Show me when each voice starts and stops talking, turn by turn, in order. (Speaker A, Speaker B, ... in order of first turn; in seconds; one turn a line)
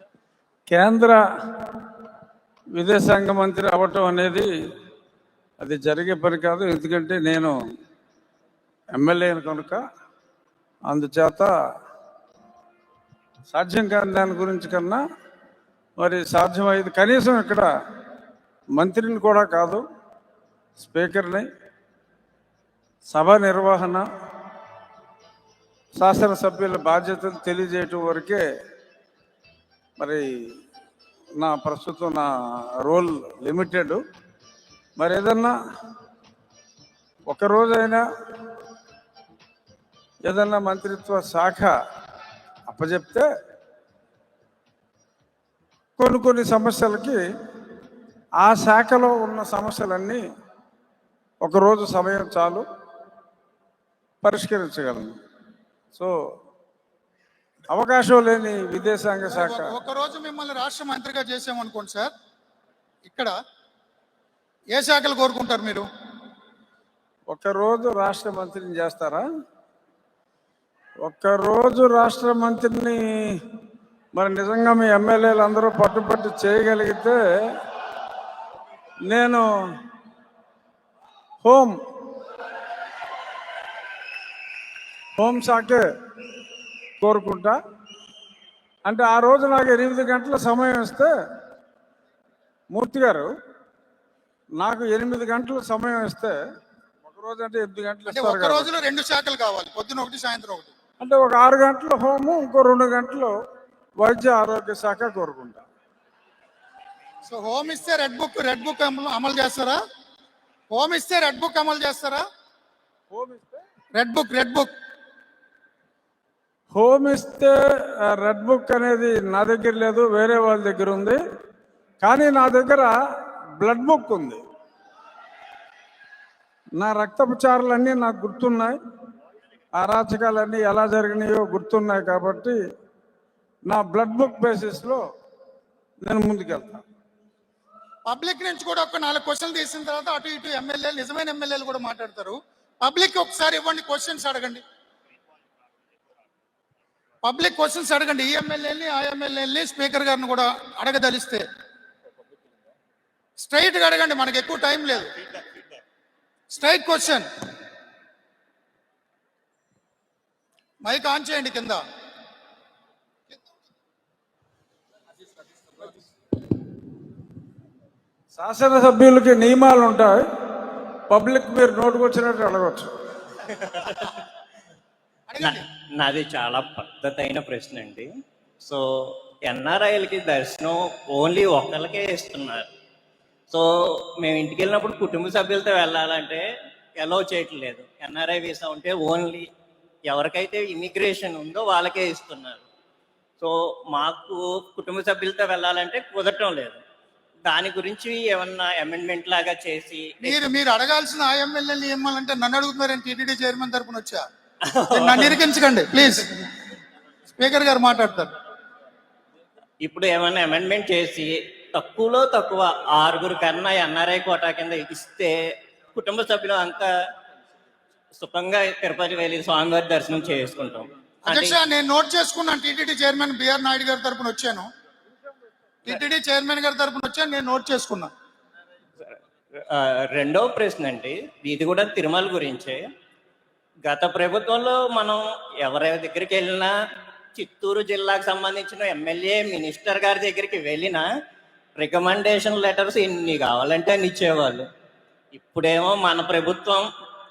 Speaker A: 0.7-1.2
Speaker A: 2.8-4.5
Speaker A: 5.6-7.5
Speaker A: 8.9-9.8
Speaker A: 10.9-11.5
Speaker A: 13.5-15.0
Speaker A: 16.0-17.7
Speaker A: 18.8-19.8
Speaker A: 20.8-21.4
Speaker A: 23.1-24.1
Speaker A: 26.0-28.4
Speaker A: 30.0-30.5
Speaker A: 31.4-32.3
Speaker A: 32.8-34.0
Speaker A: 35.0-35.5
Speaker A: 37.3-38.0
Speaker A: 40.2-41.7
Speaker A: 42.7-43.3
Speaker A: 46.0-47.2
Speaker A: 48.4-50.2
Speaker A: 51.4-52.6
Speaker A: 54.2-55.1
Speaker A: 57.7-59.7
Speaker B: 59.3-62.1
Speaker B: 63.0-63.3
Speaker B: 64.7-65.9
Speaker A: 67.3-69.2
Speaker A: 71.0-73.4
Speaker A: 74.1-77.2
Speaker A: 79.1-79.5
Speaker A: 81.4-81.8
Speaker A: 85.2-85.8
Speaker A: 87.0-87.6
Speaker A: 88.8-91.1
Speaker A: 92.7-93.3
Speaker A: 94.6-96.3
Speaker A: 97.0-98.7
Speaker B: 98.1-100.7
Speaker A: 101.0-103.3
Speaker A: 104.0-105.6
Speaker B: 107.3-109.8
Speaker B: 110.7-112.2
Speaker A: 113.1-113.6
Speaker B: 114.0-114.7
Speaker A: 116.7-121.2
Speaker A: 122.0-122.9
Speaker A: 123.6-124.4
Speaker A: 126.8-128.8
Speaker A: 129.8-132.6
Speaker A: 133.7-135.0
Speaker A: 136.0-136.8
Speaker B: 138.1-144.6
Speaker B: 147.2-151.4
Speaker B: 153.4-155.1
Speaker B: 156.5-157.2
Speaker B: 160.8-161.8
Speaker A: 168.3-170.2
Speaker A: 171.1-172.9
Speaker C: 173.7-173.9
Speaker B: 175.3-175.6
Speaker C: 175.4-178.1
Speaker C: 178.6-182.7
Speaker C: 183.5-186.4
Speaker C: 187.0-189.5
Speaker C: 190.1-192.6
Speaker C: 193.4-196.8
Speaker C: 197.5-200.4
Speaker B: 200.2-204.2
Speaker C: 204.7-205.3
Speaker B: 204.9-206.4
Speaker B: 207.4-208.3
Speaker C: 209.8-216.9
Speaker C: 218.2-221.6
Speaker B: 221.3-224.7
Speaker B: 225.8-228.1
Speaker C: 229.7-232.8
Speaker C: 233.8-236.7
Speaker C: 237.3-241.1
Speaker C: 241.8-244.7
Speaker C: 245.3-246.9